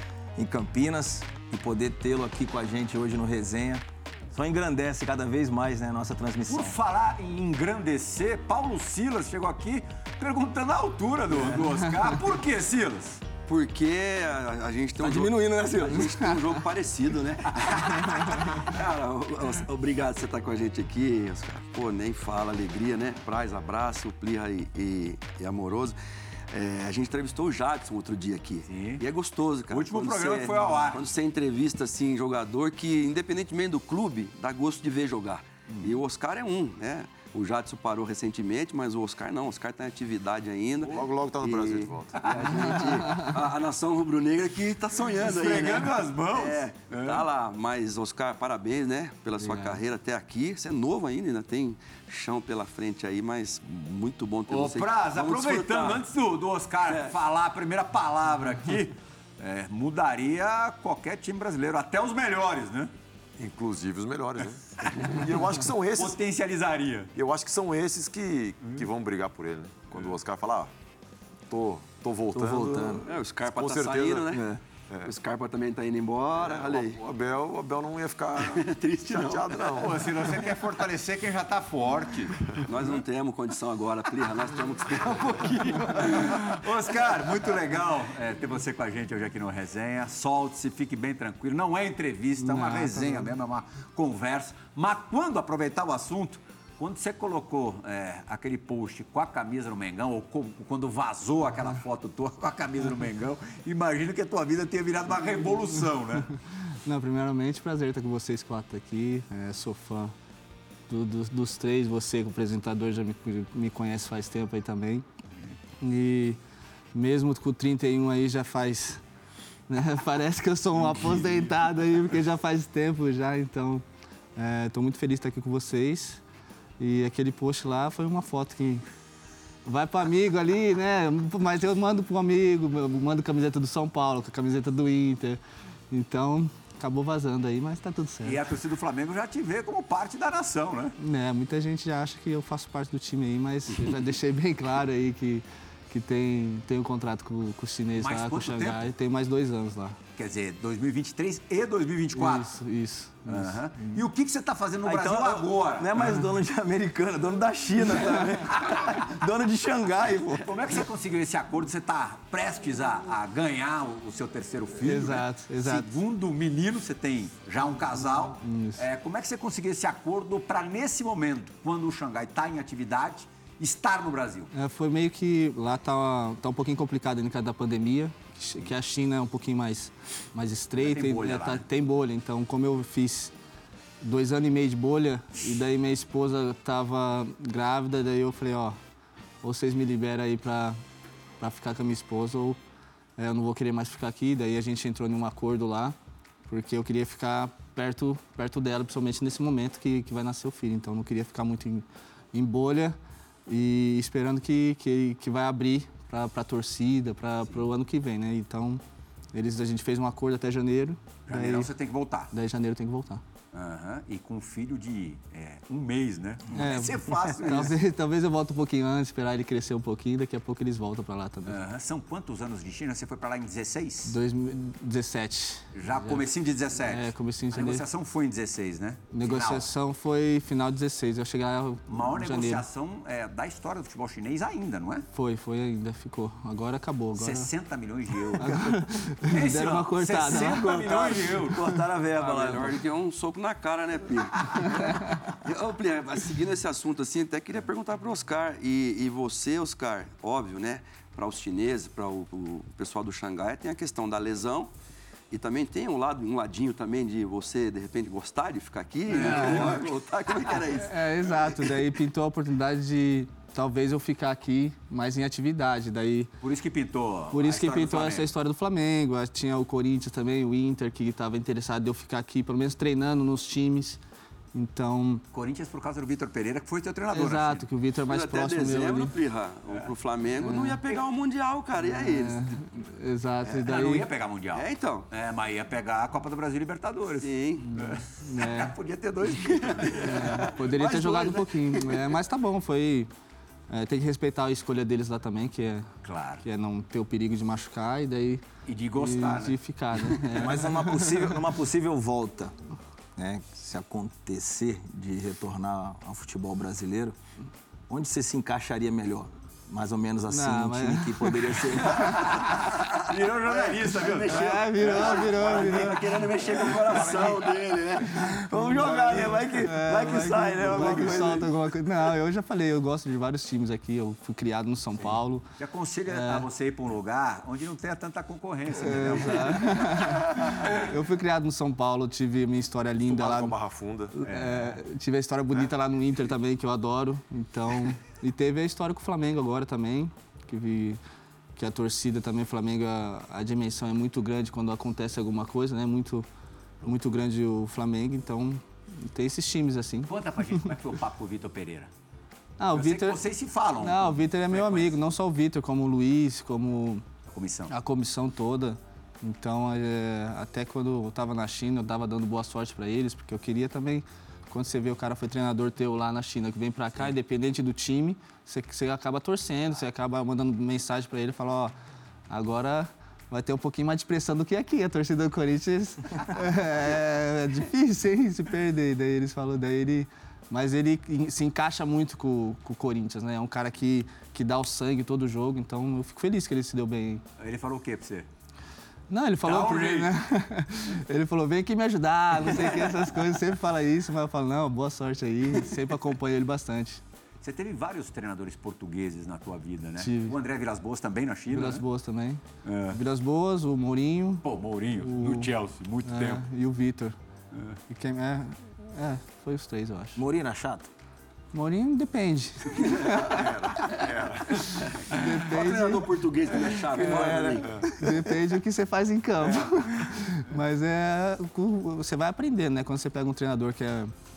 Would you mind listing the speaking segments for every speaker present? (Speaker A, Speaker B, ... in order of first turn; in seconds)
Speaker A: 0.3-6.8, 15.0-16.6, 72.3-73.0, 74.3-74.6, 154.8-160.5, 240.4-242.8, 300.3-302.5, 303.1-307.1, 307.9-312.1, 317.0-317.3, 318.1-321.5, 410.1-410.9, 417.0-417.8
Speaker B: 6.5-13.2, 28.7-29.0, 29.7-31.1, 42.2-42.6, 45.2-47.2, 54.5-62.9, 64.8-65.2, 66.0-67.1, 79.8-82.4, 85.0-106.3, 138.2-140.9, 147.9-148.8, 150.2-152.5, 153.3-156.0, 160.4-174.5, 180.8-181.6, 211.3-212.3, 213.5-217.8, 221.4-224.1, 225.8-229.7, 231.9-235.1, 237.1-241.6, 259.1-260.6, 266.4-268.3, 275.3-277.7, 283.5-290.5, 296.0-296.4, 298.6-299.6, 311.8-315.9, 316.5-317.4, 325.6-330.8, 334.2-334.8, 350.1-351.9, 352.7-355.0, 357.3-357.7, 387.4-388.3, 389.4-390.1, 397.4-401.8, 402.6-403.0, 404.4-406.4, 416.9-417.4
Speaker C: 11.3-11.6, 13.4-26.0, 26.5-56.0, 73.0-74.4, 75.0-77.0, 78.3-80.4, 82.7-86.6, 242.2-254.7, 255.3-261.6, 278.1-282.6, 284.5-285.1, 287.2-287.6, 289.7-292.0, 313.1-319.4, 320.6-321.4, 415.0-417.8
Speaker D: 40.8-42.2, 63.4-66.2, 67.1-70.7, 71.5-74.3, 76.4-80.1, 333.1-334.1, 413.3-414.5
Speaker E: 49.4-49.8, 92.4-93.3, 106.8-110.1, 110.9-115.0, 115.8-116.4, 116.9-119.0, 119.7-123.8, 124.3-126.2, 126.8-128.8, 129.7-138.4, 141.0-150.0, 152.1-154.0, 156.0-156.2, 164.7-165.9, 168.2-168.8, 174.5-183.3, 184.0-188.8, 189.4-190.8, 191.4-192.6, 193.2-195.9, 196.5-202.9, 203.5-208.8, 209.3-211.7, 212.3-213.2, 216.5-221.6, 224.0-226.2, 226.8-227.8, 229.1-232.6, 235.1-237.5, 238.4-241.8, 244.8-245.2, 259.1-259.8, 260.8-266.3, 267.3-274.0, 274.5-275.2, 277.1-279.1, 280.4-280.8, 281.8-284.1, 287.6-288.7, 290.0-293.1, 293.7-295.9, 296.4-298.4, 299.0-301.4, 310.3-312.5, 314.3-316.2, 319.6-325.4, 326.1-326.4, 328.8-333.6, 334.1-341.0, 341.6-346.3, 346.8-350.7, 352.6-353.2, 353.8-357.0, 357.7-371.7, 372.3-387.2, 389.1-397.0, 400.0-400.3, 401.5-404.4, 405.0-405.5, 406.0-407.1, 407.9-410.2, 411.5-413.4, 415.0-416.1, 417.9-424.1